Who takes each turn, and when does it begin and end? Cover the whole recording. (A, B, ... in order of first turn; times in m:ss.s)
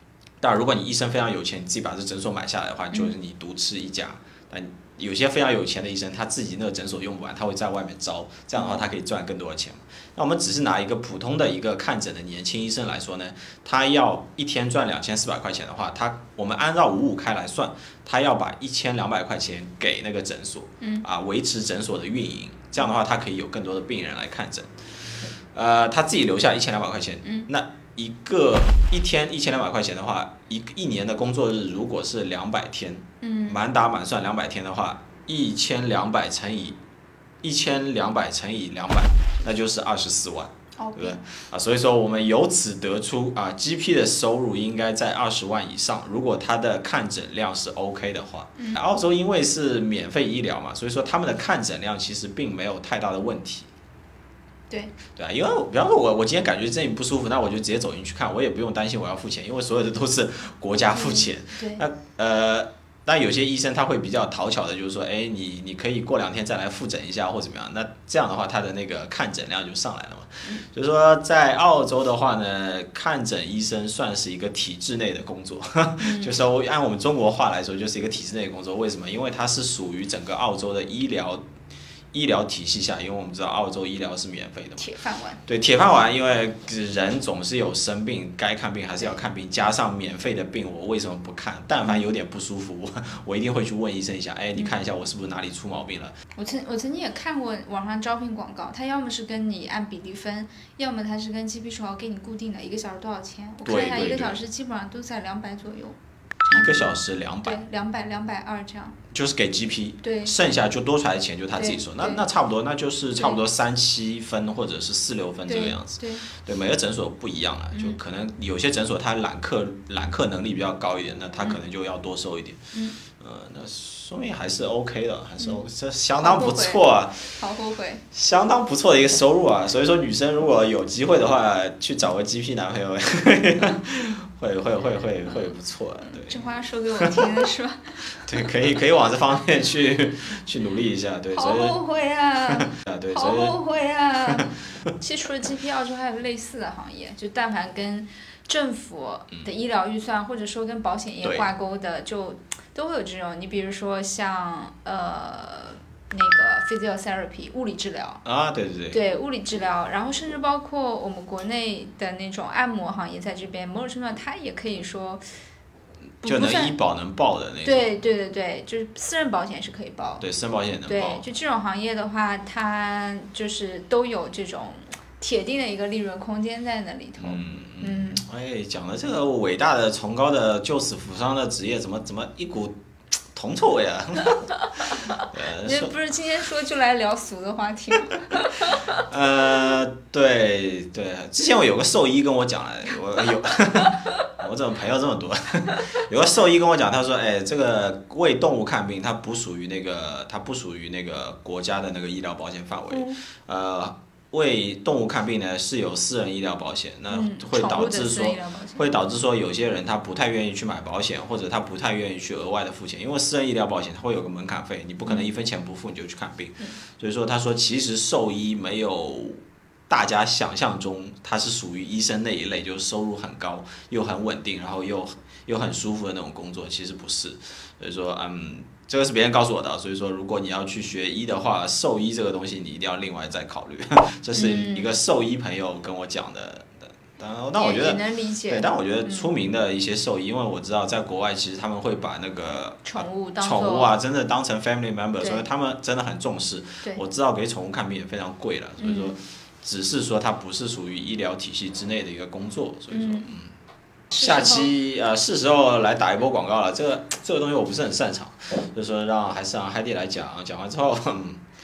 0:00.4-0:24.7 A
0:08.6-0:08.8 B
0:20.8-0:21.1 B
0:25.5-0:36.8 A
0:27.2-0:27.5 B
0:33.2-0:33.6 B
0:37.4-0:53.7 A
0:40.8-0:41.2 B
0:55.2-1:21.4 A
1:00.9-1:01.8 B
1:16.0-1:16.4 B
1:22.1-1:24.9 A
1:24.8-1:25.4 B
1:25.5-1:36.2 A
1:36.4-1:46.0 B
1:43.6-1:44.4 A
1:46.4-1:47.6 A
1:46.5-1:49.0 B
1:49.1-2:02.6 A
1:50.0-1:50.4 B
1:51.6-1:52.2 B
1:53.2-1:53.4 B
1:55.5-1:56.3 B
1:57.7-1:58.0 B
2:02.7-2:03.0 B
2:03.1-2:07.3 A
2:05.4-2:05.6 B
2:06.2-2:06.8 B
2:07.3-2:08.0 B
2:08.1-2:16.4 A
2:16.0-2:18.0 B
2:17.0-2:17.3 A
2:18.2-2:21.8 A
2:21.3-2:38.2 B
2:22.5-2:23.6 A
2:38.2-2:39.0 A
2:38.9-2:45.2 B
2:46.2-2:46.8 B
2:46.2-2:47.9 A
2:47.6-2:50.2 B
2:50.2-2:51.2 A
2:50.9-2:58.2 B
2:57.2-3:02.8 A
3:03.3-3:05.9 A
3:05.1-3:09.0 B
3:09.0-4:13.5 A
3:22.9-3:23.2 B
3:27.1-3:28.9 B
3:54.3-3:54.9 B
3:57.6-3:59.3 B
4:02.8-4:03.9 B
4:08.8-4:09.2 B
4:12.9-4:13.3 B
4:14.1-4:14.7 B
4:14.2-4:21.4 A